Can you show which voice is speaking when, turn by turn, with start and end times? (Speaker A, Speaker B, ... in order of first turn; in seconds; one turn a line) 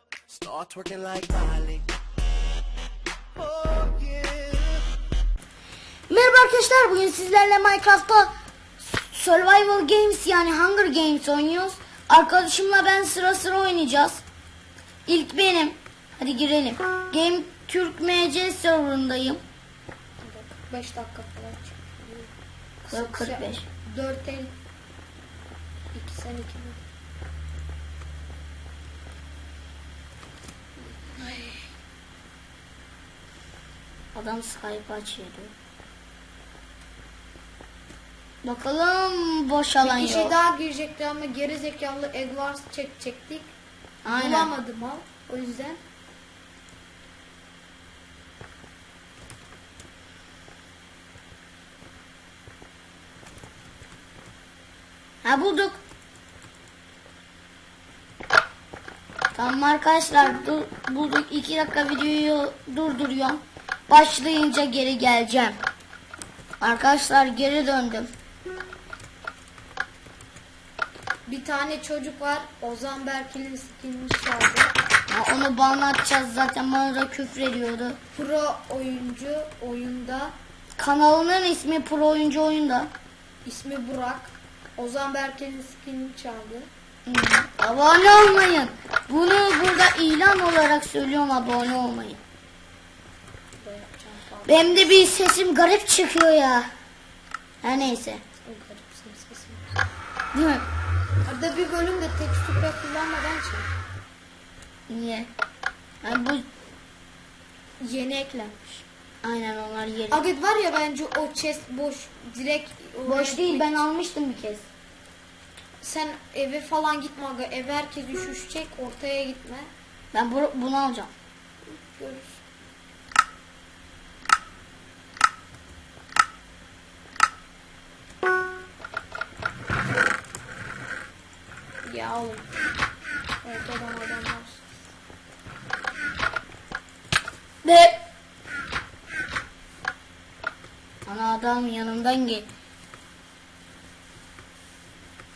Speaker A: 0.3-1.9
Speaker A: 3.4-4.8
Speaker B: 6.1-14.2
Speaker B: 15.1-19.4
Speaker C: 20.2-22.3
Speaker C: 22.8-24.5
Speaker B: 22.9-23.6
Speaker C: 25.9-26.8
Speaker C: 30.9-31.7
Speaker B: 34.1-35.5
Speaker B: 38.4-40.3
Speaker C: 39.8-43.5
Speaker B: 44.0-44.5
Speaker C: 44.1-45.8
Speaker B: 55.2-55.8
Speaker B: 59.3-65.6
Speaker B: 66.6-68.1
Speaker C: 71.2-74.7
Speaker B: 75.1-78.0
Speaker C: 78.1-80.3
Speaker B: 80.8-82.9
Speaker C: 83.4-86.7
Speaker B: 87.0-92.2
Speaker C: 93.6-95.1
Speaker B: 94.5-96.7
Speaker B: 97.6-98.2
Speaker C: 98.4-99.8
Speaker B: 100.3-100.6
Speaker C: 101.2-103.7
Speaker B: 104.9-105.3
Speaker B: 106.0-106.4
Speaker C: 107.8-108.8
Speaker B: 109.2-110.2
Speaker C: 110.1-113.7
Speaker B: 113.0-114.6
Speaker C: 115.8-119.7
Speaker B: 120.1-121.1
Speaker C: 121.6-122.4
Speaker C: 131.8-132.5
Speaker C: 133.4-134.8
Speaker B: 137.6-138.0
Speaker B: 141.0-142.5